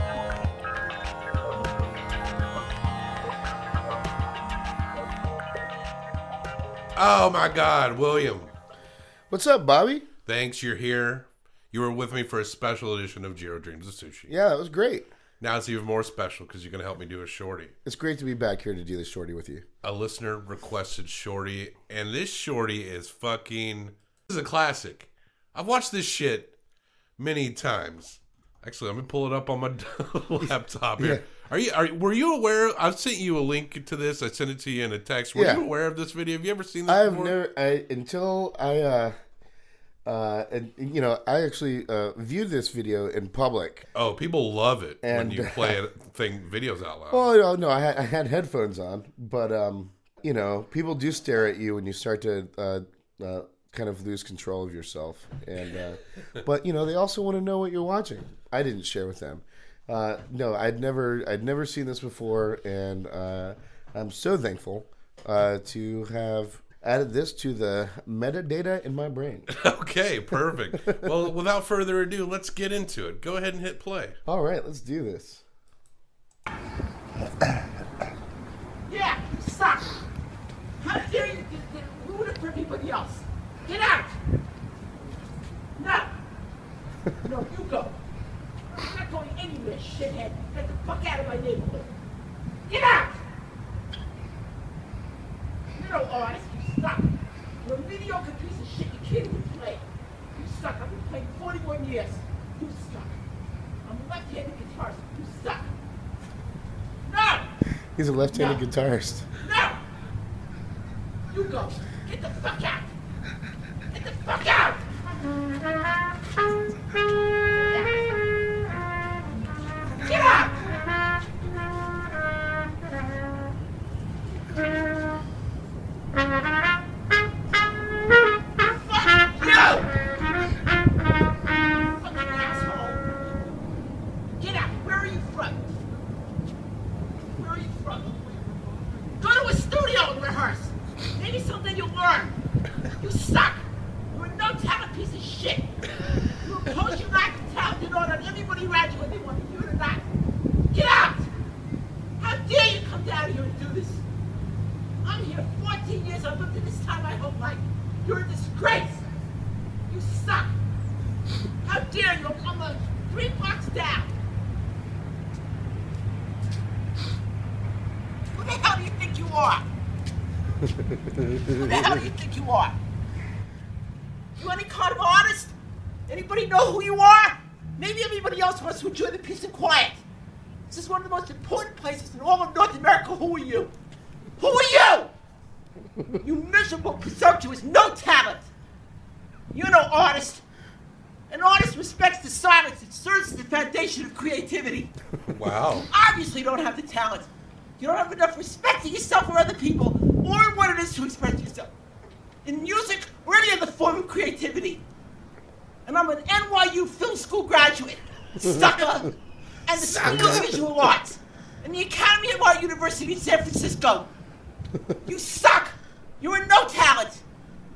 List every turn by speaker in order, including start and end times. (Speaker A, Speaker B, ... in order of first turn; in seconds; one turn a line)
Speaker A: 7.0-8.5
Speaker B: 9.3-10.1
Speaker A: 10.3-14.3
Speaker B: 14.3-15.1
Speaker A: 15.4-17.7
Speaker B: 17.9-19.7
Speaker A: 19.8-26.5
Speaker A: 27.2-37.4
Speaker B: 30.4-31.3
Speaker B: 35.3-35.7
Speaker B: 36.9-39.1
Speaker B: 40.1-43.9
Speaker A: 43.9-47.2
Speaker B: 45.0-45.8
Speaker B: 47.1-69.5
Speaker A: 69.5-74.2
Speaker B: 70.7-71.2
Speaker B: 74.3-75.4
Speaker C: 78.9-80.0
Speaker C: 80.8-84.2
Speaker C: 85.8-86.1
Speaker C: 87.2-88.0
Speaker C: 88.7-91.9
Speaker C: 92.7-93.2
Speaker C: 95.8-97.1
Speaker C: 97.6-103.2
Speaker C: 103.8-105.7
Speaker C: 107.1-107.5
Speaker B: 108.0-109.3
Speaker C: 108.3-108.6
Speaker C: 109.4-109.8
Speaker C: 111.3-112.9
Speaker C: 113.9-114.9
Speaker C: 117.5-118.1
Speaker C: 120.0-120.6
Speaker C: 128.6-129.9
Speaker C: 131.9-133.1
Speaker C: 134.4-135.8
Speaker C: 137.3-138.6
Speaker C: 139.2-142.4
Speaker C: 143.0-145.8
Speaker C: 146.4-150.1
Speaker C: 150.7-151.3
Speaker C: 152.2-154.1
Speaker C: 155.0-159.1
Speaker C: 159.9-160.5
Speaker C: 161.6-164.1
Speaker C: 168.3-169.7
Speaker B: 170.6-171.8
Speaker C: 171.5-172.8
Speaker C: 174.4-175.6
Speaker C: 176.1-180.0
Speaker C: 180.7-183.7
Speaker C: 184.4-185.1
Speaker C: 186.2-188.5
Speaker C: 189.5-190.4
Speaker C: 191.3-194.9
Speaker A: 195.3-195.9
Speaker C: 195.9-201.7
Speaker C: 202.4-204.8
Speaker C: 205.8-209.1
Speaker C: 209.7-214.1
Speaker B: 209.9-210.6
Speaker C: 215.0-217.2